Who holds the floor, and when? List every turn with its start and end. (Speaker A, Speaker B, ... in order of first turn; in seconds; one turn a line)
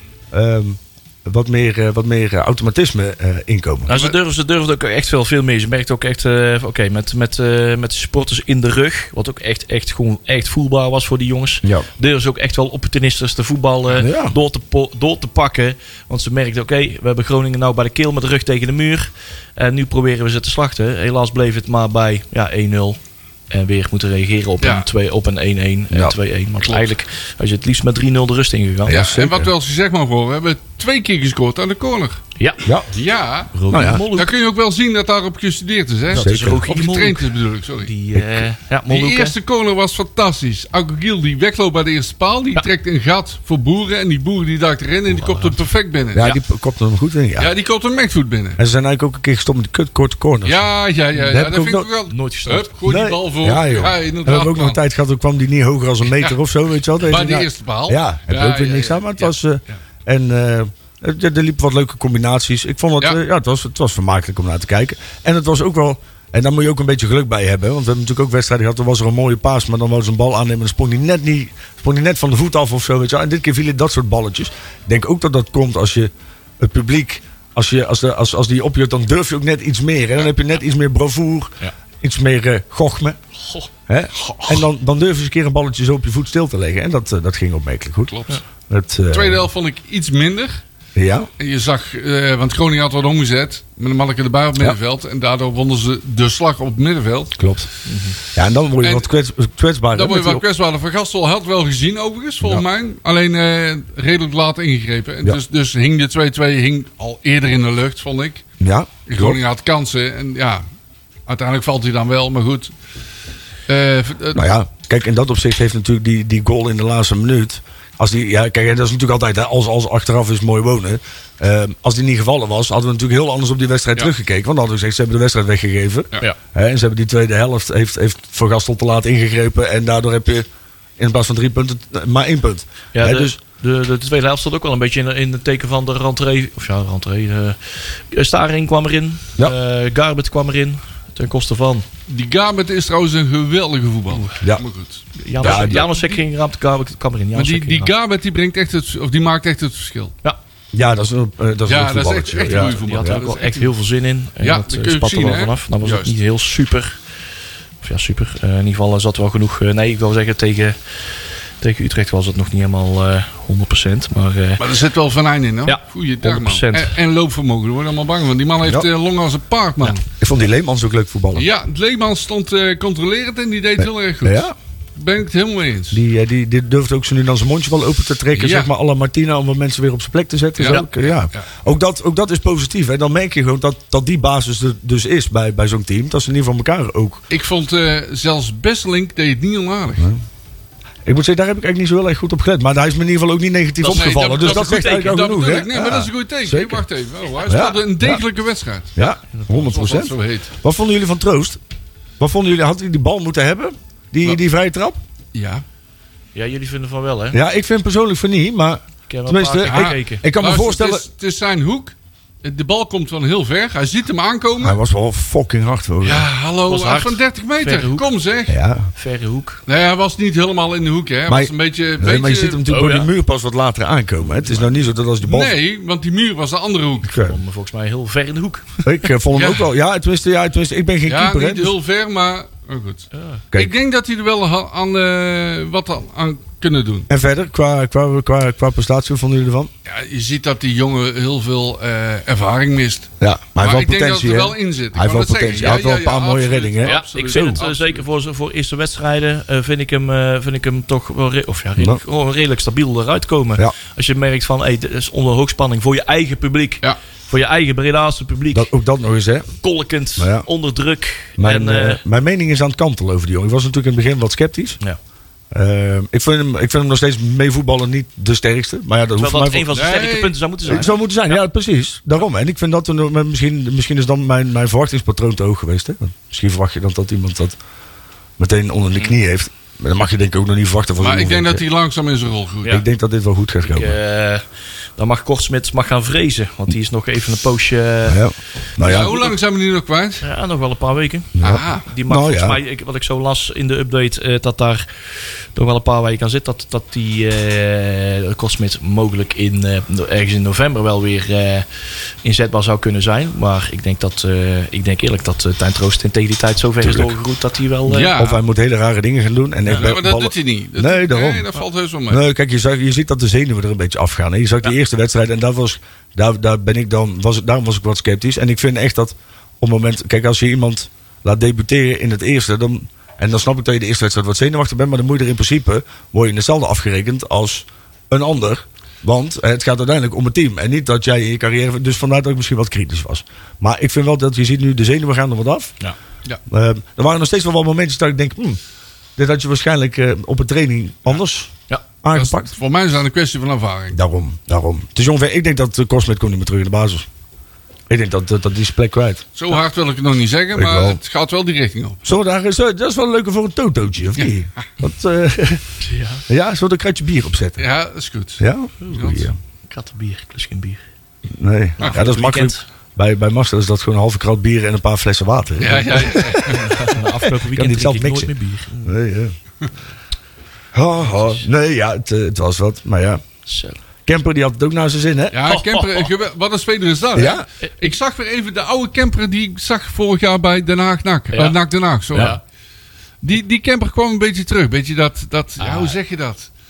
Speaker A: 0.3-3.9
Speaker B: 3.9-29.1
Speaker C: 3.9-4.2
Speaker A: 13.9-14.4
Speaker C: 24.6-24.9
Speaker C: 26.6-26.9
Speaker A: 28.9-29.5
Speaker C: 28.9-32.2
Speaker B: 32.4-32.6
Speaker C: 32.9-33.5
Speaker B: 33.5-34.3
Speaker A: 33.7-34.0
Speaker C: 34.1-37.9
Speaker B: 36.1-37.2
Speaker A: 36.2-36.6
Speaker B: 37.8-39.4
Speaker A: 38.1-38.4
Speaker C: 38.9-46.4
Speaker B: 45.1-45.6
Speaker A: 46.1-47.5
Speaker C: 47.4-48.6
Speaker A: 48.6-50.6
Speaker C: 50.4-54.8
Speaker A: 51.3-51.9
Speaker B: 52.1-52.7
Speaker A: 52.9-83.2
Speaker C: 57.0-59.3
Speaker A: 83.9-89.5
Speaker C: 89.1-90.6
Speaker A: 91.0-91.3
Speaker C: 91.4-97.3
Speaker A: 97.4-97.7
Speaker B: 97.9-98.2
Speaker A: 98.3-100.4
Speaker C: 98.8-99.1
Speaker C: 99.9-108.4
Speaker A: 108.6-109.4
Speaker C: 109.1-110.6
Speaker C: 111.3-112.7
Speaker C: 113.7-114.4
Speaker A: 114.3-130.4
Speaker A: 131.0-133.4
Speaker B: 132.9-141.9
Speaker C: 142.1-146.2
Speaker B: 145.2-147.9
Speaker A: 145.4-145.9
Speaker C: 147.3-150.1
Speaker A: 150.7-153.2
Speaker C: 151.7-153.7
Speaker B: 152.5-157.0
Speaker C: 154.4-156.1
Speaker B: 157.8-160.8
Speaker B: 161.6-164.6
Speaker C: 164.6-170.0
Speaker B: 165.7-166.9
Speaker A: 170.1-171.5
Speaker C: 171.3-176.0
Speaker A: 173.8-174.5
Speaker A: 175.9-187.2
Speaker C: 178.3-178.7
Speaker C: 180.6-181.4
Speaker C: 187.3-190.1
Speaker A: 191.1-196.8
Speaker B: 193.8-195.2
Speaker C: 193.9-199.0
Speaker A: 197.5-198.2
Speaker A: 199.0-201.6
Speaker B: 199.0-199.7
Speaker C: 199.5-200.5
Speaker A: 202.2-205.0
Speaker C: 205.3-205.6
Speaker B: 206.3-207.4
Speaker A: 207.3-211.0
Speaker B: 209.1-210.2
Speaker C: 209.6-214.8
Speaker A: 214.6-216.3
Speaker C: 216.0-218.6
Speaker B: 216.7-218.1
Speaker A: 218.5-218.9
Speaker B: 219.0-219.6
Speaker C: 219.7-222.6
Speaker A: 221.3-225.6
Speaker B: 222.7-223.1
Speaker C: 225.2-227.1
Speaker A: 227.1-227.4
Speaker B: 227.2-229.1
Speaker A: 228.8-231.7
Speaker C: 229.3-229.7
Speaker C: 231.1-237.1
Speaker B: 233.2-233.4
Speaker A: 237.1-239.7
Speaker C: 239.9-248.0
Speaker A: 243.2-247.6
Speaker B: 246.8-258.7
Speaker A: 258.5-259.5
Speaker B: 259.6-262.0
Speaker A: 260.2-260.5
Speaker A: 261.4-264.8
Speaker A: 265.5-269.8
Speaker B: 269.2-271.0
Speaker C: 269.7-270.4
Speaker A: 270.6-277.6
Speaker A: 278.4-281.6
Speaker C: 281.0-282.8
Speaker A: 282.7-284.0
Speaker B: 283.6-284.4
Speaker B: 285.0-288.2
Speaker A: 288.1-289.2
Speaker C: 288.8-290.2
Speaker B: 288.8-289.3
Speaker B: 290.2-301.7
Speaker A: 291.4-292.6
Speaker C: 291.4-291.9
Speaker B: 302.2-308.1
Speaker A: 306.8-307.1
Speaker C: 307.9-308.4
Speaker A: 308.2-311.5
Speaker B: 309.7-309.9
Speaker C: 309.8-312.2
Speaker A: 312.1-335.8
Speaker A: 336.5-338.6
Speaker A: 339.2-341.5
Speaker A: 342.0-342.5
Speaker C: 342.1-344.0
Speaker A: 343.9-347.1
Speaker A: 347.9-349.2
Speaker C: 349.4-352.1
Speaker A: 350.5-351.0
Speaker A: 352.1-355.6
Speaker B: 355.8-356.2
Speaker A: 356.3-357.6
Speaker C: 357.6-359.3
Speaker A: 358.4-359.4
Speaker B: 359.7-360.8
Speaker A: 361.3-368.3
Speaker B: 361.8-362.6
Speaker C: 365.6-366.8
Speaker B: 366.5-369.0
Speaker A: 368.9-369.3
Speaker A: 370.7-373.2
Speaker B: 373.5-373.8
Speaker A: 374.1-375.4
Speaker C: 375.3-382.4
Speaker B: 375.5-376.1
Speaker A: 377.2-377.5
Speaker B: 381.3-381.6
Speaker B: 382.1-382.4
Speaker C: 383.2-386.5
Speaker B: 385.6-385.9